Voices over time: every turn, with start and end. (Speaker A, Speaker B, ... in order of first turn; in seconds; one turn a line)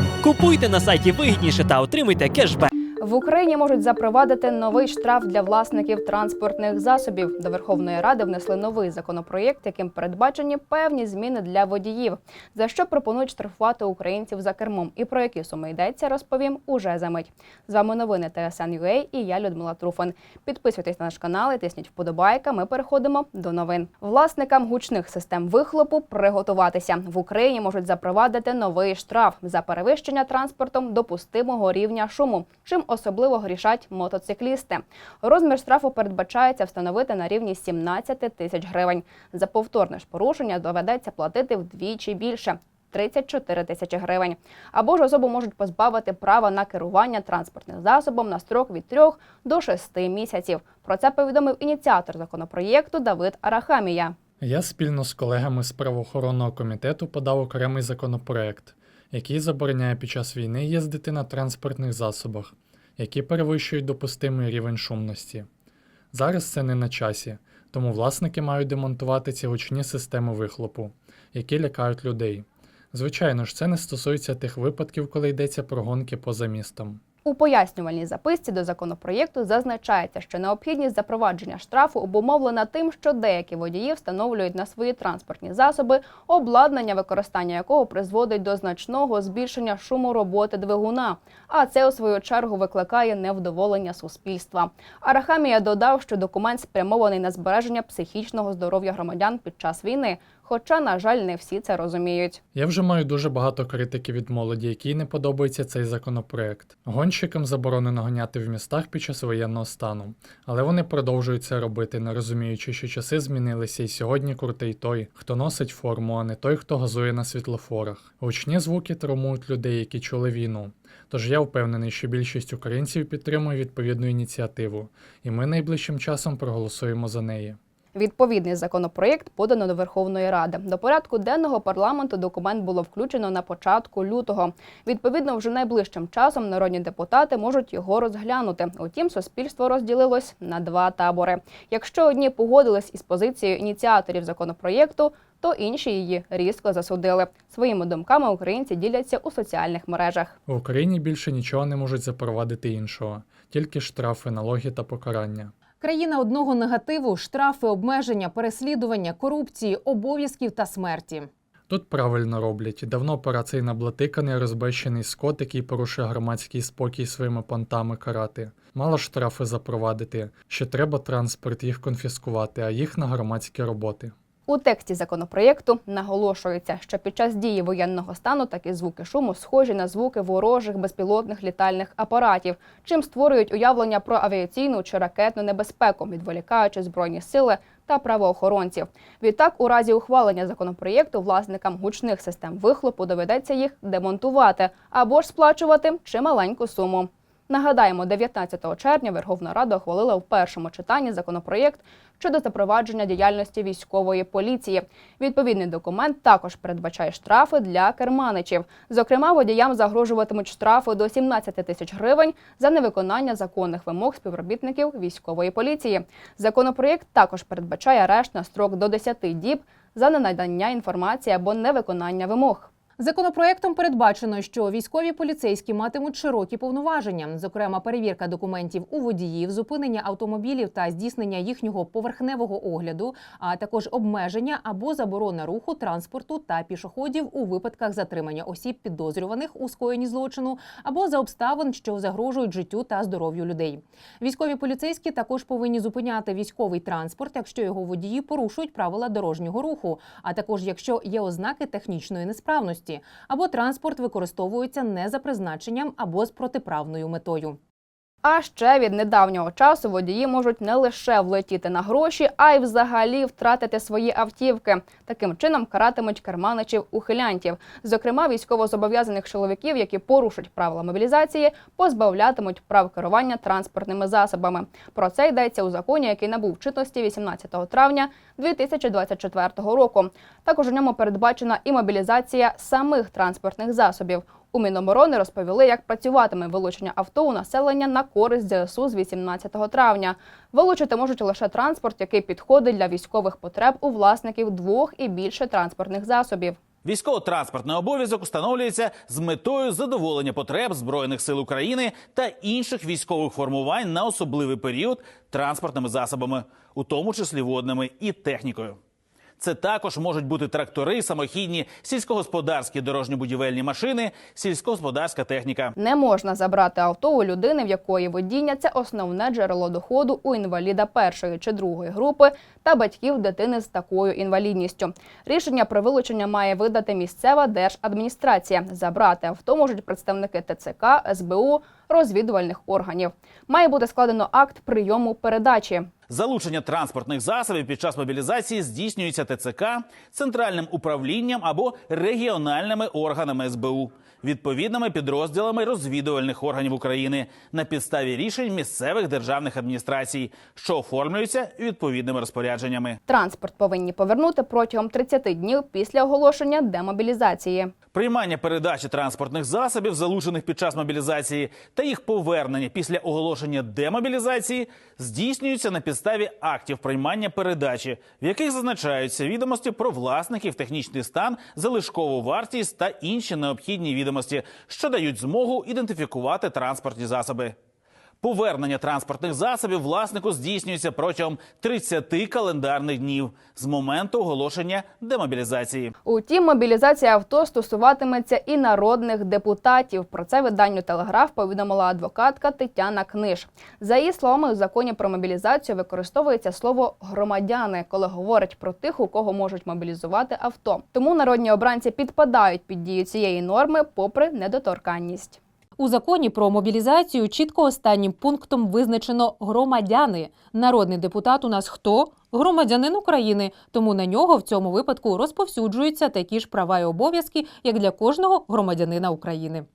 Speaker A: 0.2-2.7
Speaker B: 3.0-54.2
Speaker C: 54.4-65.5
Speaker C: 66.1-77.0
Speaker B: 77.2-102.4
Speaker C: 102.5-127.6
Speaker B: 127.9-150.3
Speaker C: 150.5-155.5
Speaker D: 155.8-161.3
Speaker C: 161.7-174.1
Speaker B: 174.5-222.7
Speaker D: 223.0-257.6
Speaker B: 258.2-296.6
Speaker E: 296.8-308.8
Speaker E: 309.4-315.8
Speaker B: 315.8-335.9
Speaker E: 336.1-353.0
Speaker B: 353.1-357.7
Speaker E: 357.9-377.6
Speaker E: 378.2-385.9
Speaker B: 386.0-405.4
Speaker D: 405.8-419.6